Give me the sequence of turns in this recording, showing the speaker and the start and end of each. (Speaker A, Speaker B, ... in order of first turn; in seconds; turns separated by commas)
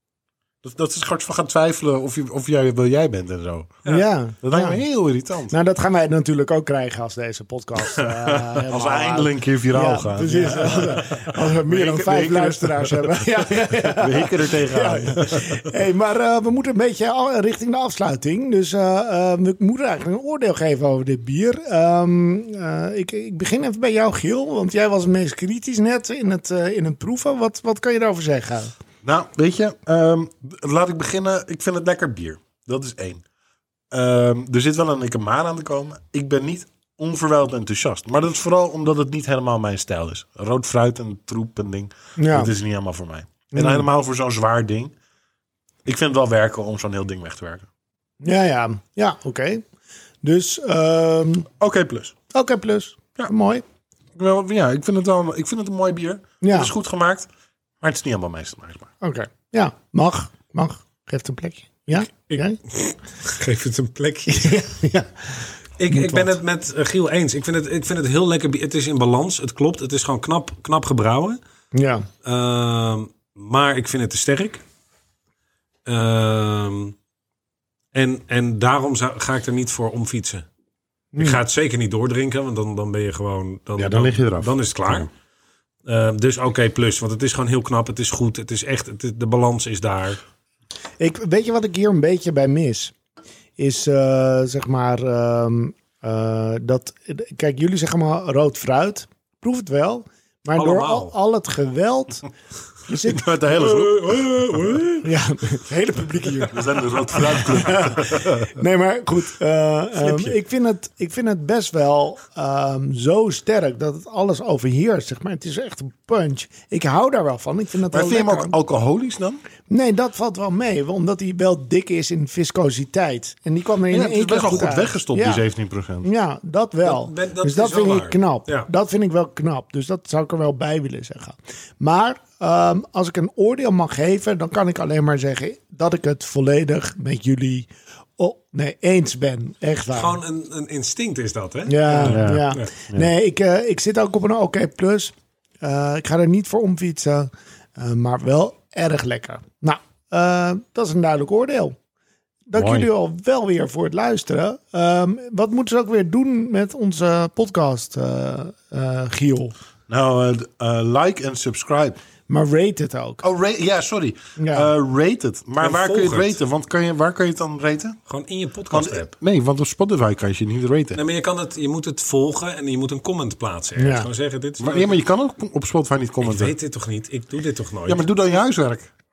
Speaker A: 0.6-3.8, Speaker B: 3.9-4.8, Speaker A: 4.4-5.6, Speaker B: 5.5-28.7, Speaker A: 7.8-15.7, Speaker A: 29.0-33.2, Speaker A: 33.9-44.9, Speaker B: 42.2-42.5, Speaker B: 43.5-43.9, Speaker A: 45.9-47.7, Speaker B: 48.2-49.6, Speaker B: 50.2-51.5, Speaker A: 51.6-52.1, Speaker B: 52.3-53.6, Speaker A: 54.1-57.3, Speaker B: 56.4-56.7, Speaker A: 57.8-58.9, Speaker B: 59.0-62.6, Speaker C: 62.3-64.6, Speaker B: 64.3-66.3, Speaker C: 65.8-71.4, Speaker B: 71.7-72.1, Speaker C: 72.2-74.6, Speaker C: 75.9-77.0, Speaker C: 77.9-80.5, Speaker B: 81.1-81.4, Speaker C: 81.2-85.1, Speaker A: 83.8-85.0, Speaker C: 85.9-90.2, Speaker B: 91.0-92.9, Speaker B: 93.6-102.3, Speaker C: 100.5-101.2, Speaker B: 102.9-103.3, Speaker A: 103.0-104.3, Speaker C: 103.5-105.1, Speaker B: 105.0-118.5, Speaker A: 106.5-108.5, Speaker A: 117.9-119.4, Speaker B: 119.7-125.4, Speaker A: 123.9-126.1, Speaker B: 126.0-140.2, Speaker C: 126.8-128.7, Speaker C: 139.9-142.7, Speaker B: 141.7-151.8, Speaker A: 142.0-143.1, Speaker B: 152.5-159.6, Speaker A: 152.6-152.9, Speaker A: 159.9-162.0, Speaker B: 162.3-163.2, Speaker A: 163.2-168.0, Speaker B: 164.4-164.7, Speaker C: 165.6-166.4, Speaker C: 168.1-169.1, Speaker A: 168.7-171.0, Speaker C: 170.9-175.0, Speaker B: 173.8-174.1, Speaker A: 174.6-176.6, Speaker C: 176.2-178.1, Speaker A: 177.9-178.9